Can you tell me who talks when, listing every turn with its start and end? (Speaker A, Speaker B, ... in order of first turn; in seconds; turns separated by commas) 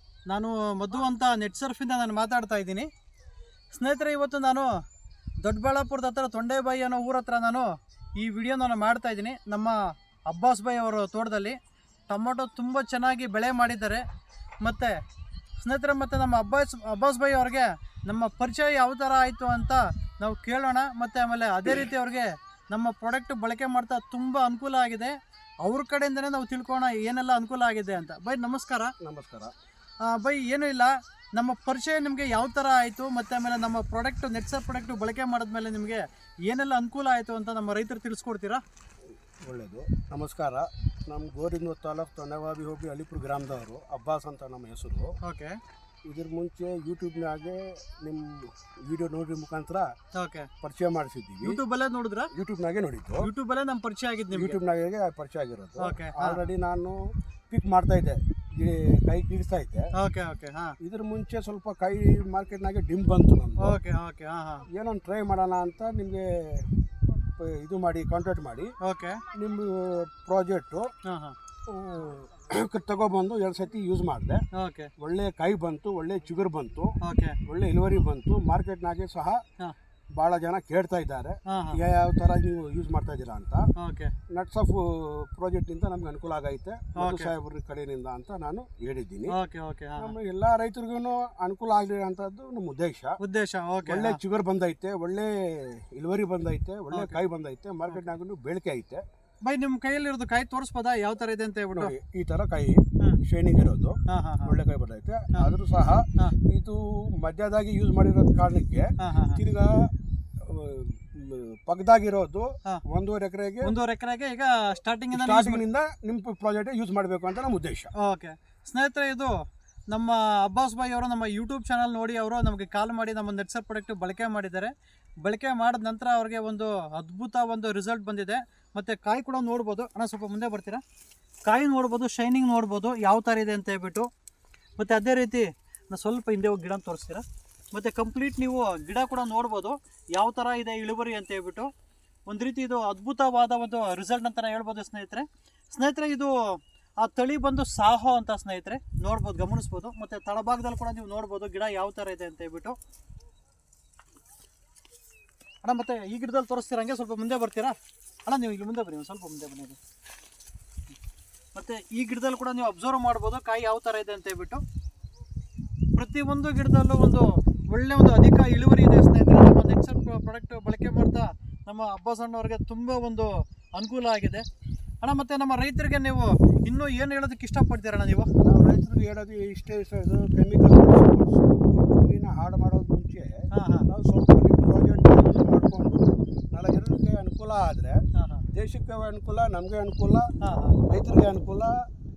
Speaker A: 0.3-2.9, Speaker A: 3.7-4.7, Speaker A: 5.4-9.8, Speaker A: 10.3-11.6, Speaker A: 12.1-14.0, Speaker A: 14.6-15.0, Speaker A: 15.6-28.9, Speaker B: 29.0-29.5, Speaker A: 30.0-38.6, Speaker B: 39.4-45.1, Speaker A: 45.2-45.6, Speaker B: 46.0-49.9, Speaker A: 50.1-50.5, Speaker B: 50.6-51.6, Speaker A: 51.4-52.3, Speaker B: 52.3-53.3, Speaker A: 53.2-54.6, Speaker B: 54.3-57.0, Speaker A: 55.8-56.4, Speaker B: 57.5-59.9, Speaker A: 60.0-60.8, Speaker B: 60.8-63.8, Speaker A: 63.6-64.7, Speaker B: 64.7-66.7, Speaker B: 67.4-68.7, Speaker A: 68.8-69.2, Speaker B: 69.3-70.9, Speaker A: 71.0-71.3, Speaker B: 71.7-74.4, Speaker A: 74.5-74.9, Speaker B: 75.0-79.4, Speaker A: 77.0-77.4, Speaker B: 80.2-83.7, Speaker A: 81.5-81.8, Speaker A: 83.8-84.1, Speaker B: 84.3-89.3, Speaker A: 86.9-87.3, Speaker A: 89.3-90.1, Speaker B: 90.0-93.2, Speaker A: 93.2-94.2, Speaker B: 93.8-99.0, Speaker A: 96.9-97.2, Speaker A: 99.4-101.9, Speaker B: 101.7-109.9, Speaker A: 104.1-104.5, Speaker A: 109.0-109.4, Speaker B: 110.4-113.7, Speaker A: 113.6-115.6, Speaker B: 115.1-117.9, Speaker A: 118.0-119.3, Speaker A: 119.9-124.7, Speaker A: 125.2-130.8, Speaker A: 131.4-134.1, Speaker A: 134.8-141.7, Speaker A: 142.3-152.8, Speaker A: 155.6-159.8, Speaker A: 161.5-164.6, Speaker A: 165.9-174.4, Speaker A: 175.0-178.3, Speaker B: 178.4-188.0, Speaker A: 183.5-183.8, Speaker A: 188.1-188.4, Speaker B: 188.5-190.3, Speaker A: 190.4-190.8, Speaker B: 190.9-191.8